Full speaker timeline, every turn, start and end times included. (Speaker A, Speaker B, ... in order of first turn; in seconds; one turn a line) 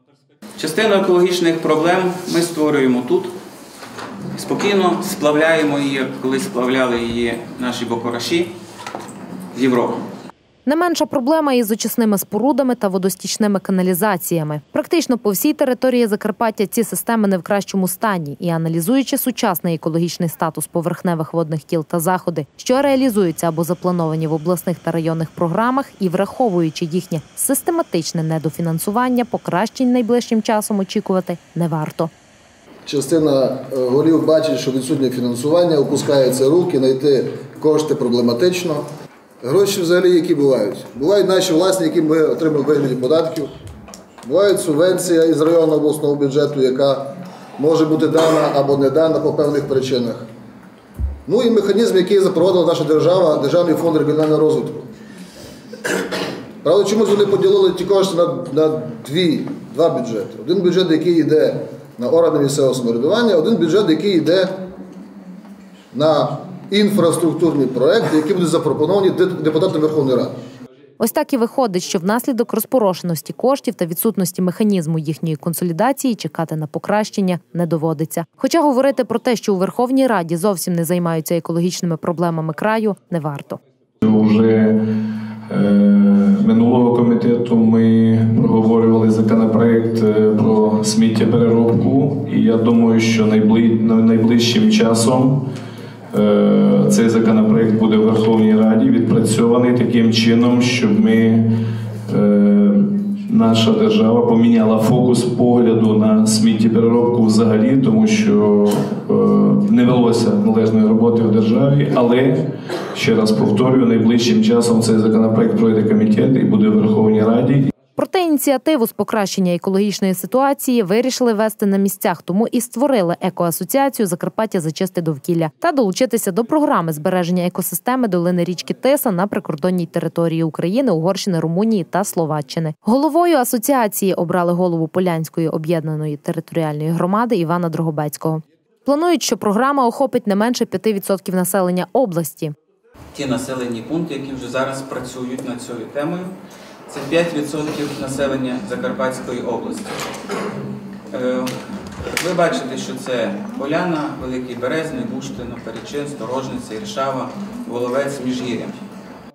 Speaker A: 0.6-3.3
Speaker A: 4.3-8.5
Speaker A: 9.5-10.0
Speaker B: 10.7-32.1
Speaker C: 32.9-38.8
Speaker C: 39.4-43.5
Speaker C: 44.2-47.0
Speaker C: 47.6-50.2
Speaker C: 51.2-54.8
Speaker C: 56.6-64.5
Speaker C: 65.9-70.3
Speaker B: 71.0-83.6
Speaker D: 84.0-84.8
Speaker D: 85.5-95.5
Speaker D: 96.1-101.5
Speaker D: 102.1-117.7
Speaker B: 118.0-142.6
Speaker A: 143.1-146.3
Speaker A: 146.9-149.9
Speaker A: 151.1-151.5
Speaker A: 152.2-158.8